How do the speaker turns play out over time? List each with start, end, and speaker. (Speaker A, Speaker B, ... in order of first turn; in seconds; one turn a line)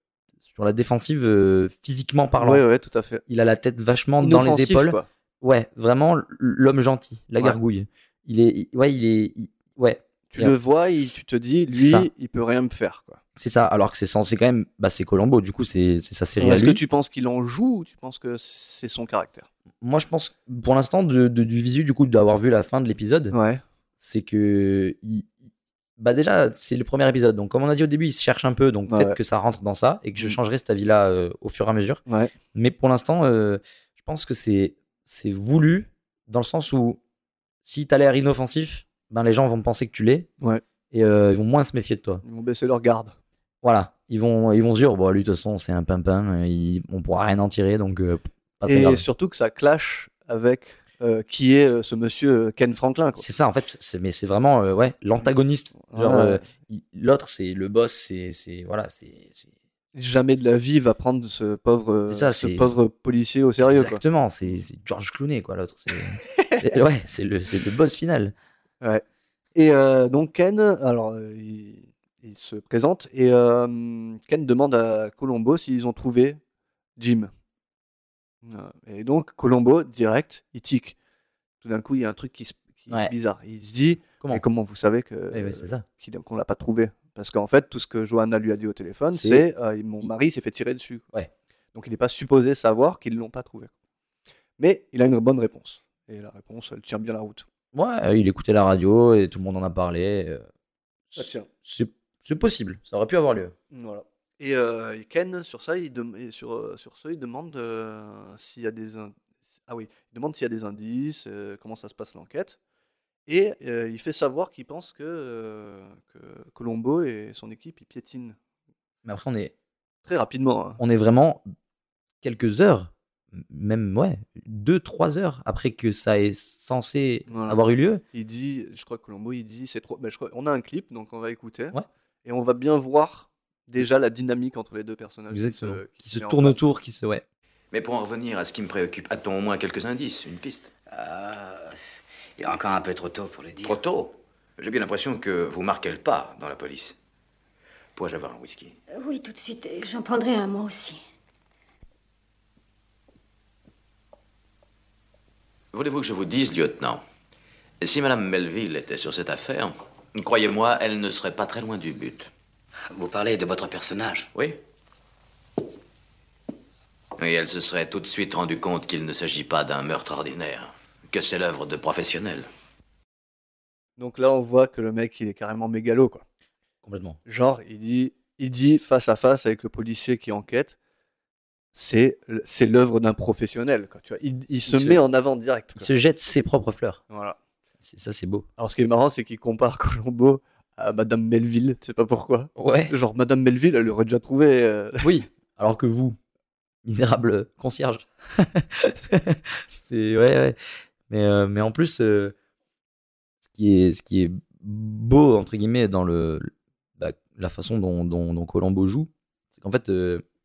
Speaker A: 0.5-2.6
Speaker B: 2.4-3.2
Speaker A: 3.3-10.5
Speaker B: 4.2-5.1
Speaker B: 10.3-13.2
Speaker A: 11.7-12.1
Speaker A: 13.4-16.8
Speaker B: 16.4-19.5
Speaker A: 19.8-23.3
Speaker B: 23.3-23.6
Speaker A: 24.0-25.3
Speaker A: 26.0-32.0
Speaker B: 28.9-29.2
Speaker B: 32.1-32.3
Speaker A: 32.5-37.0
Speaker A: 37.6-40.3
Speaker A: 40.9-42.2
Speaker B: 42.2-43.1
Speaker A: 43.6-49.0
Speaker B: 48.6-53.2
Speaker A: 53.2-59.5
Speaker B: 55.8-56.4
Speaker B: 59.9-64.0
Speaker A: 62.1-62.7
Speaker A: 63.6-68.3
Speaker B: 66.2-66.8
Speaker B: 69.5-76.4
Speaker B: 77.0-77.3
Speaker B: 78.4-81.0
Speaker B: 81.6-91.0
Speaker A: 85.3-85.8
Speaker A: 89.1-89.5
Speaker B: 91.7-93.7
Speaker B: 94.6-97.4
Speaker A: 97.7-100.5
Speaker A: 101.1-103.5
Speaker B: 101.2-101.5
Speaker B: 103.7-109.1
Speaker B: 109.7-112.6
Speaker B: 113.3-118.4
Speaker A: 119.0-119.5
Speaker B: 120.0-120.8
Speaker A: 120.8-121.4
Speaker A: 122.2-128.0
Speaker B: 127.3-127.6
Speaker B: 128.1-136.7
Speaker A: 135.3-137.2
Speaker C: 137.7-140.7
Speaker D: 140.9-143.8
Speaker C: 143.6-146.9
Speaker C: 147.9-148.8
Speaker E: 148.9-151.0
Speaker C: 155.7-157.0
Speaker C: 157.8-162.3
Speaker D: 162.9-164.3
Speaker C: 164.3-164.6
Speaker C: 167.2-172.5
Speaker B: 174.0-176.2
Speaker A: 176.8-177.2
Speaker B: 177.2-180.8
Speaker B: 181.7-185.9
Speaker A: 184.5-185.0
Speaker A: 185.8-187.0
Speaker B: 187.1-187.4
Speaker A: 187.8-188.5
Speaker B: 188.6-195.1
Speaker A: 192.6-192.9
Speaker A: 195.0-196.2
Speaker A: 196.8-200.6
Speaker A: 201.1-202.3
Speaker A: 203.4-210.2